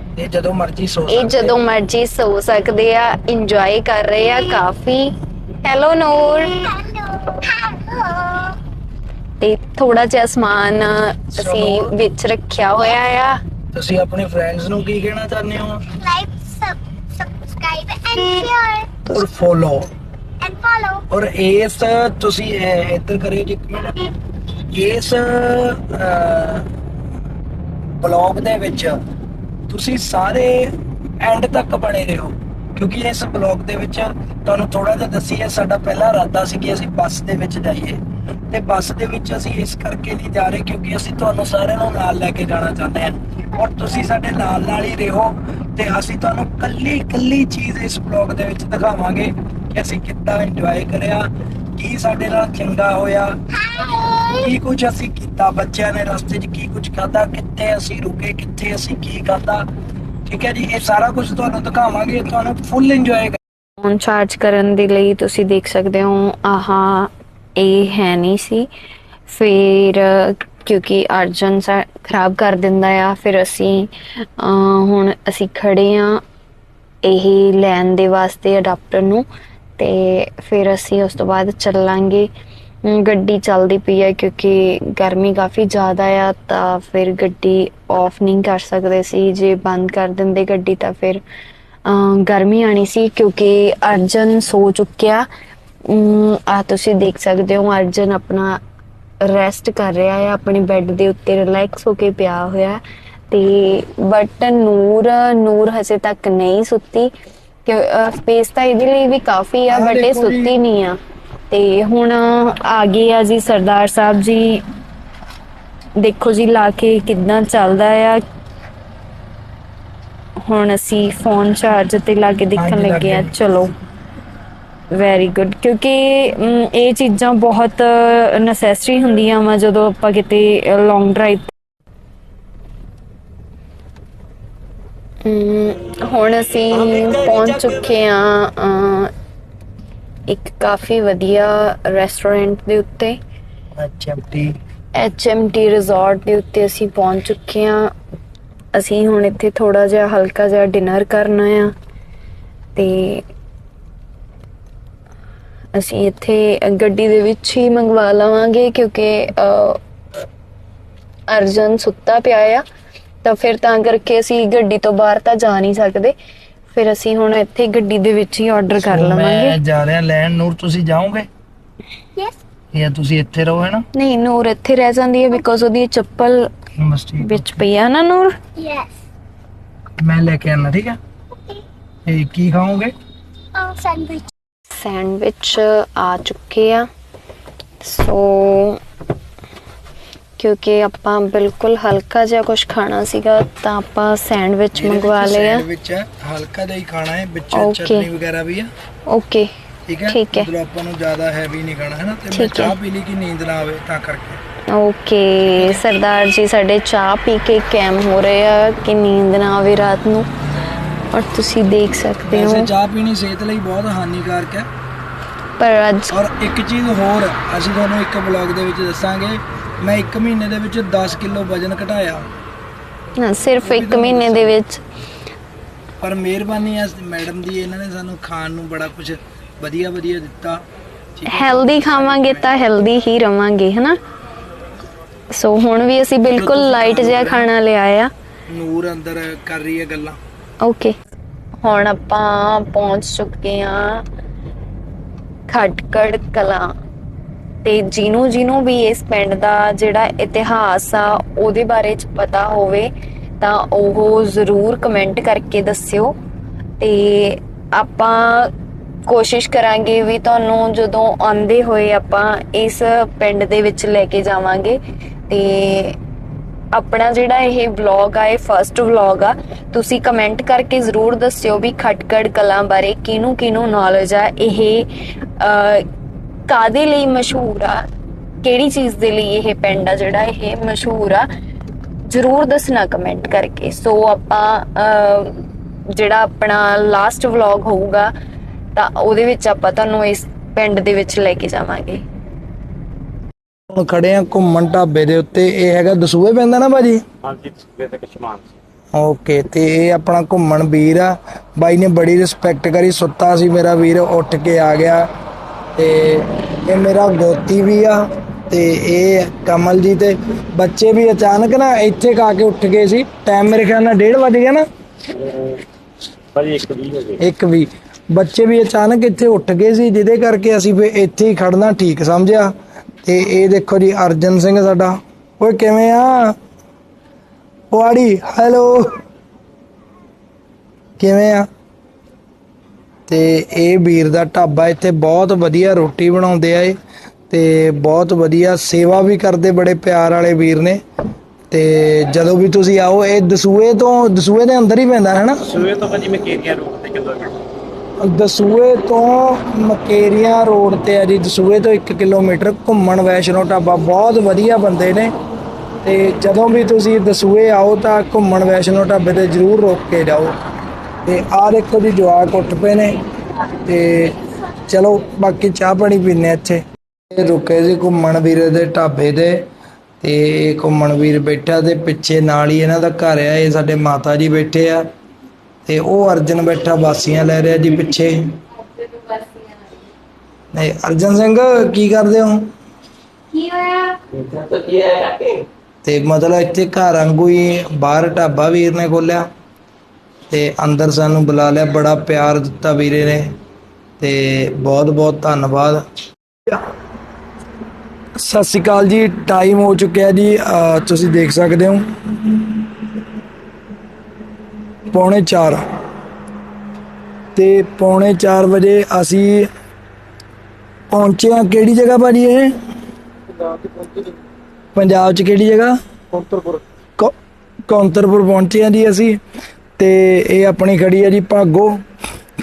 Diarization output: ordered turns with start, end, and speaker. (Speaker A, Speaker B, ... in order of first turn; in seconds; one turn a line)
Speaker A: 0.1-1.6
Speaker B: 1.1-5.1
Speaker B: 5.6-8.5
Speaker B: 9.4-13.4
Speaker A: 11.4-11.9
Speaker A: 13.7-15.9
Speaker C: 16.0-18.9
Speaker A: 19.0-19.9
Speaker C: 20.4-21.0
Speaker A: 21.1-24.1
Speaker A: 24.7-26.7
Speaker A: 28.0-29.0
Speaker A: 29.7-59.6
Speaker A: 60.2-63.4
Speaker B: 63.8-68.7
Speaker B: 69.3-76.2
Speaker B: 77.0-79.2
Speaker B: 79.8-82.3
Speaker B: 82.8-91.2
Speaker B: 91.8-95.3
Speaker B: 95.9-98.6
Speaker B: 99.2-107.1
Speaker B: 107.7-111.0
Speaker A: 109.7-110.5
Speaker B: 111.5-114.6
Speaker B: 116.0-118.2
Speaker B: 120.5-123.7
Speaker A: 122.5-123.3
Speaker B: 124.9-131.5
Speaker B: 135.2-139.1
Speaker A: 136.7-137.9
Speaker B: 140.3-143.2
Speaker A: 143.8-144.6
Speaker B: 144.9-147.9
Speaker B: 148.7-151.7
Speaker B: 152.8-153.2
Speaker B: 155.7-159.8
Speaker B: 161.3-162.6
Speaker B: 163.2-166.1
Speaker B: 166.7-169.6
Speaker A: 168.7-171.3
Speaker A: 172.7-173.8
Speaker B: 173.9-176.5
Speaker A: 176.8-177.6
Speaker B: 177.2-178.3
Speaker C: 178.6-178.9
Speaker A: 180.0-181.0
Speaker A: 182.1-182.9
Speaker C: 183.5-184.3
Speaker B: 184.7-186.8
Speaker B: 187.8-188.8
Speaker B: 190.4-195.6
Speaker A: 194.7-198.7
Speaker B: 197.5-198.1
Speaker B: 199.1-199.5
Speaker A: 199.9-204.4
Speaker B: 200.1-200.5
Speaker B: 202.3-202.8
Speaker B: 204.7-210.3
Speaker A: 205.5-205.8
Speaker B: 211.1-212.7
Speaker A: 212.3-214.7
Speaker B: 215.6-216.2
Speaker A: 216.1-222.2
Speaker B: 223.2-224.8
Speaker A: 223.6-224.5
Speaker A: 226.0-230.6
Speaker A: 231.2-232.5
Speaker B: 231.3-234.0
Speaker B: 235.3-238.1
Speaker A: 236.3-237.5
Speaker A: 238.5-240.2
Speaker B: 240.6-240.9
Speaker B: 241.6-244.0
Speaker B: 245.5-246.7
Speaker B: 247.6-256.1
Speaker B: 256.8-258.5
Speaker B: 259.1-264.8
Speaker B: 265.3-266.0
Speaker B: 266.7-275.9
Speaker B: 276.5-277.8
Speaker B: 278.4-281.3
Speaker B: 282.1-285.4
Speaker B: 285.9-288.1
Speaker B: 288.7-292.0
Speaker A: 293.7-297.0
Speaker D: 297.2-298.6
Speaker A: 298.9-305.1
Speaker A: 305.8-314.6
Speaker D: 316.3-317.2
Speaker A: 317.2-326.4
Speaker A: 327.7-329.0
Speaker A: 331.0-331.5
Speaker A: 333.1-336.8
Speaker A: 337.3-340.8
Speaker A: 341.5-345.4
Speaker D: 345.5-347.3
Speaker A: 348.0-355.1
Speaker A: 355.8-360.3
Speaker A: 361.0-362.9
Speaker A: 363.6-369.4
Speaker A: 370.0-374.9
Speaker A: 375.6-378.2
Speaker B: 379.1-379.4
Speaker A: 380.5-382.5
Speaker B: 383.3-384.0
Speaker A: 385.8-389.2
Speaker A: 390.3-393.3
Speaker A: 394.0-395.8
Speaker A: 398.2-402.5
Speaker A: 404.9-405.6
Speaker A: 407.4-409.5
Speaker A: 410.9-412.5
Speaker D: 413.4-414.1
Speaker A: 414.7-415.7
Speaker D: 416.1-416.6
Speaker A: 417.7-419.2
Speaker A: 419.8-421.8